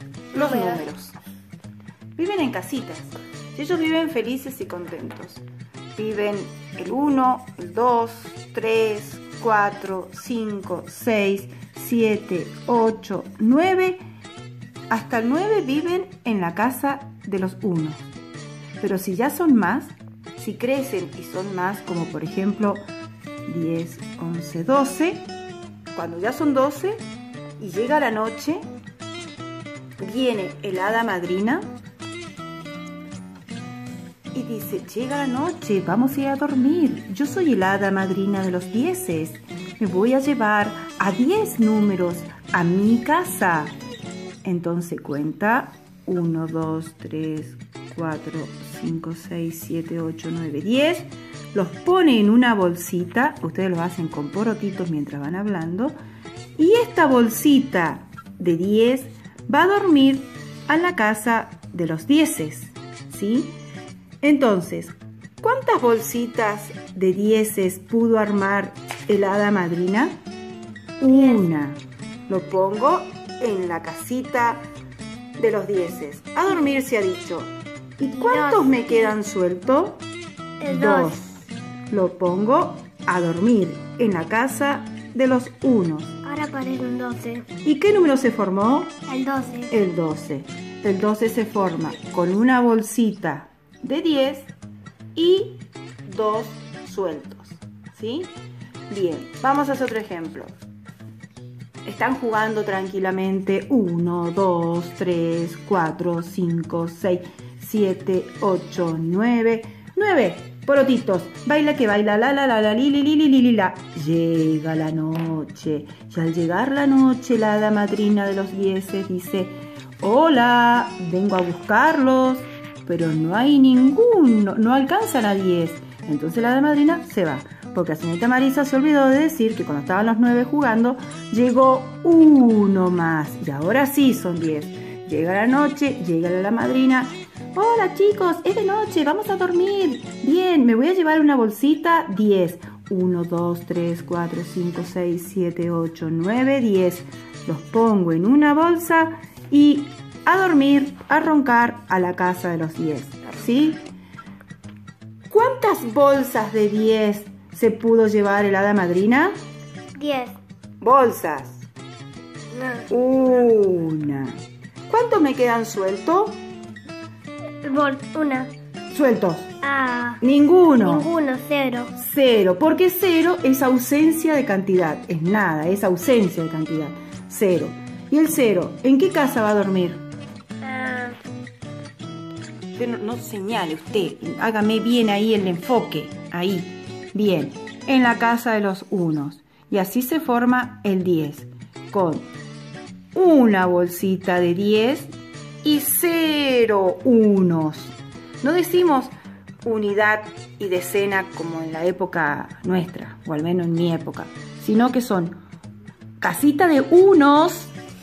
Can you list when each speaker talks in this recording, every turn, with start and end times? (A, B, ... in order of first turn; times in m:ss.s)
0:00.3-0:01.2 A
0:00.3-0:00.8 B
0:02.2-0:14.0 A
0:14.9-0:18.1 A
0:18.8-0:22.8 A
0:23.5-0:25.3 A
0:25.9-0:27.0 A
0:27.6-0:28.6 A
0:30.0-0:31.7 A
0:34.3-0:43.8 A
0:44.4-0:56.0 A
0:56.6-1:03.6 A
1:04.2-1:10.2 A
1:11.0-1:14.6 A
1:11.1-1:11.4 B
1:15.4-1:20.0 A
1:18.1-1:19.2 B
1:20.6-1:21.4 B
1:20.6-1:21.4 A
1:21.9-1:26.2 A
1:26.2-1:27.5 B
1:27.6-1:29.0 A
1:29.1-1:29.7 B
1:29.7-1:34.5 A
1:35.2-1:38.3 A
1:38.9-1:40.5 A
1:41.8-2:33.9 A
2:35.3-2:39.4 A
2:40.0-2:40.4 B
2:40.8-2:41.7 A
2:42.6-2:42.8 B
2:42.9-2:46.4 A
2:47.6-2:48.5 B
2:48.9-2:49.5 A
2:49.6-2:50.2 B
2:50.2-2:51.1 A
2:50.8-2:51.9 B
2:52.0-3:00.0 A
3:00.6-3:01.2 B
3:02.7-3:12.3 A
3:13.1-3:15.1 A
3:15.6-3:25.4 A
3:26.2-3:27.7 A